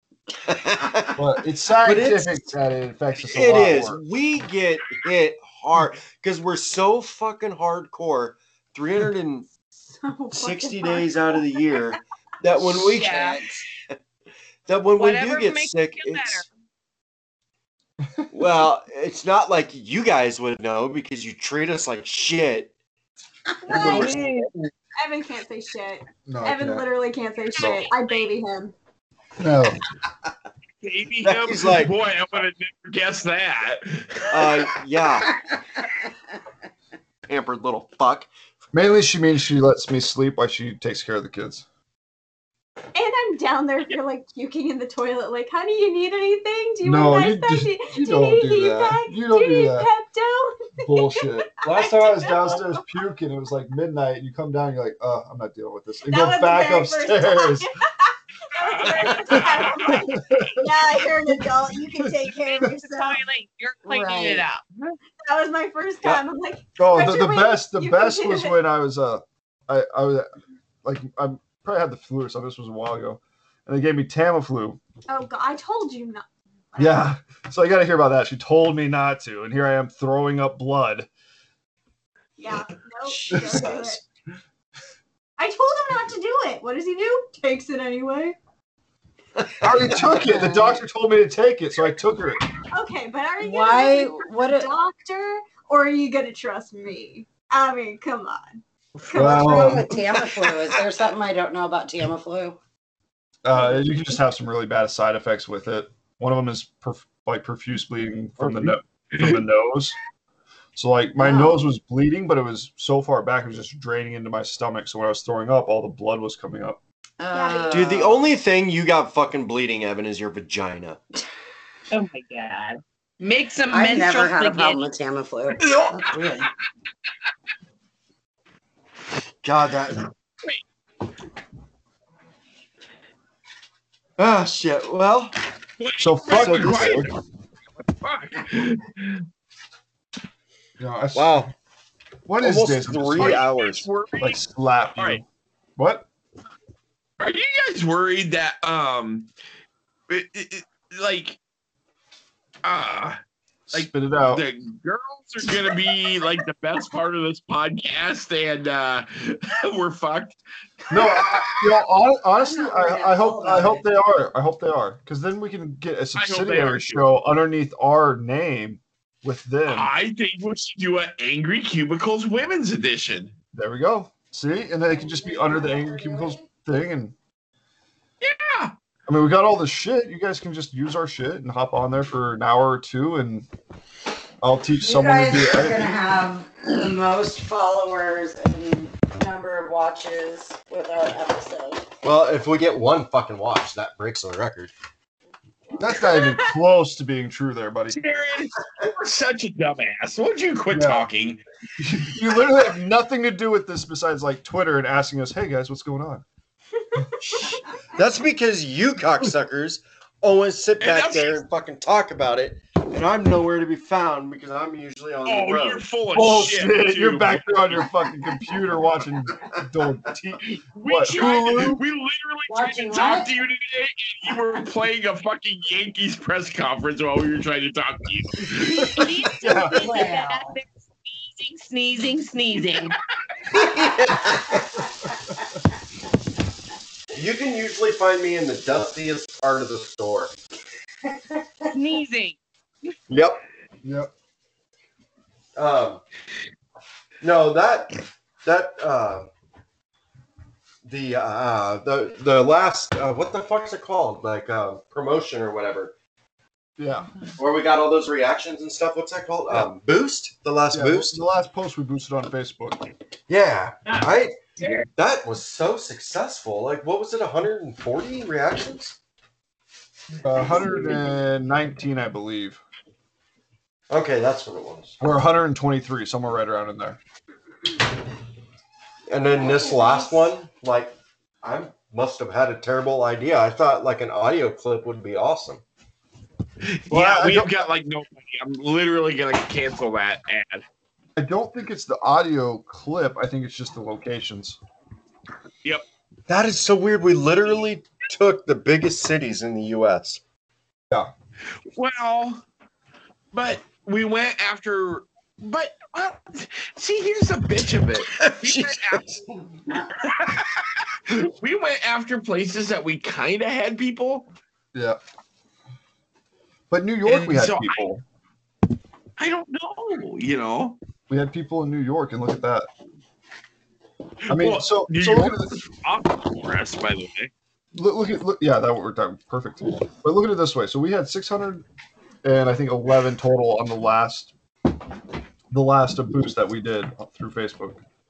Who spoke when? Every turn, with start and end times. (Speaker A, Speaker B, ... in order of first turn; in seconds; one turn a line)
Speaker A: 0.5-1.2
Speaker B: 1.2-4.0
Speaker A: 1.7-2.5
Speaker A: 3.3-9.5
Speaker C: 9.8-11.9
Speaker A: 10.3-13.2
Speaker D: 12.8-13.4
Speaker E: 13.0-13.6
Speaker A: 14.7-16.4
Speaker D: 15.0-16.5
Speaker B: 18.0-18.6
Speaker A: 18.3-22.7
Speaker C: 23.6-24.4
Speaker B: 23.7-24.2
Speaker D: 23.9-24.2
Speaker C: 25.0-28.8
Speaker B: 26.3-26.9
Speaker D: 27.5-28.3
Speaker B: 29.4-29.8
Speaker F: 30.8-34.7
Speaker A: 31.2-31.9
Speaker A: 34.3-35.4
Speaker A: 37.3-38.3
Speaker B: 38.7-41.6
Speaker C: 43.0-52.8
Speaker B: 46.8-49.9
Speaker B: 50.8-57.7
Speaker A: 51.6-52.6
Speaker C: 56.1-63.2
Speaker F: 58.6-60.1
Speaker B: 59.3-61.3
Speaker B: 61.9-62.7
Speaker D: 62.5-64.9
Speaker E: 63.9-64.5
Speaker C: 65.2-68.6
Speaker B: 66.8-70.3
Speaker B: 70.8-74.8
Speaker C: 75.1-77.1
Speaker B: 76.8-81.1
Speaker C: 82.4-84.0
Speaker A: 83.1-84.0
Speaker B: 83.3-83.7
Speaker C: 85.4-88.4
Speaker A: 89.4-89.7
Speaker B: 89.6-92.4
Speaker E: 90.0-90.8
Speaker C: 92.7-99.9
Speaker E: 93.4-94.7
Speaker F: 99.0-99.3
Speaker B: 99.1-99.9
Speaker E: 99.2-102.6
Speaker B: 103.4-110.0
Speaker F: 108.4-109.4
Speaker B: 110.8-116.8
Speaker E: 111.2-111.6
Speaker E: 117.2-118.2
Speaker C: 117.3-118.0
Speaker A: 117.7-121.0
Speaker D: 121.9-124.9
Speaker E: 123.7-126.5
Speaker A: 129.4-130.1
Speaker A: 134.2-135.4
Speaker F: 135.8-137.2
Speaker B: 136.0-137.1
Speaker A: 136.3-137.1
Speaker F: 138.0-139.2
Speaker B: 140.8-141.5
Speaker A: 141.2-141.5
Speaker B: 142.3-143.5
Speaker A: 142.4-143.9
Speaker F: 143.2-144.4
Speaker B: 144.2-145.2
Speaker B: 145.8-146.1
Speaker F: 147.2-149.3
Speaker F: 150.1-151.4
Speaker F: 152.6-153.2
Speaker B: 153.7-154.4
Speaker F: 153.7-160.4
Speaker B: 160.9-169.9
Speaker F: 160.9-161.5
Speaker E: 162.4-163.8
Speaker F: 166.2-167.1
Speaker F: 169.7-173.3
Speaker B: 173.5-177.2
Speaker E: 174.9-176.4
Speaker F: 178.2-178.7
Speaker B: 179.1-183.5
Speaker B: 184.4-185.9
Speaker E: 184.8-191.9
Speaker A: 192.0-194.7
Speaker B: 195.8-198.0
Speaker F: 197.9-201.4
Speaker B: 200.7-201.1
Speaker B: 201.8-206.2
Speaker A: 207.2-215.8
Speaker F: 210.8-211.4
Speaker F: 215.2-217.5
Speaker B: 216.1-221.8
Speaker F: 220.5-229.1
Speaker E: 222.5-223.3
Speaker B: 228.6-229.9
Speaker D: 228.7-233.0
Speaker E: 229.4-230.6
Speaker A: 233.5-234.6
Speaker A: 237.1-240.3
Speaker E: 241.3-241.7
Speaker D: 241.7-242.4
Speaker A: 243.1-243.4
Speaker B: 243.8-244.1
Speaker A: 245.6-246.0
Speaker A: 247.2-249.3
Speaker A: 250.8-255.9
Speaker B: 256.8-257.1
Speaker A: 257.4-261.2
Speaker B: 260.7-262.8
Speaker A: 263.3-264.4
Speaker D: 264.6-264.9
Speaker A: 265.0-269.0
Speaker B: 270.2-272.6
Speaker A: 273.9-275.0
Speaker B: 275.0-277.0
Speaker A: 279.1-285.6
Speaker F: 286.6-290.6
Speaker B: 286.9-287.7
Speaker B: 291.2-294.6
Speaker A: 296.3-300.2
Speaker F: 301.7-302.4
Speaker F: 303.3-309.1
Speaker A: 308.1-309.2
Speaker F: 310.0-314.3
Speaker B: 314.7-315.0
Speaker B: 316.7-318.0
Speaker F: 317.1-317.9
Speaker F: 319.2-320.8
Speaker B: 321.1-322.7
Speaker F: 324.2-327.3
Speaker B: 324.3-325.6
Speaker B: 327.7-331.6
Speaker B: 332.2-334.3
Speaker B: 335.5-337.8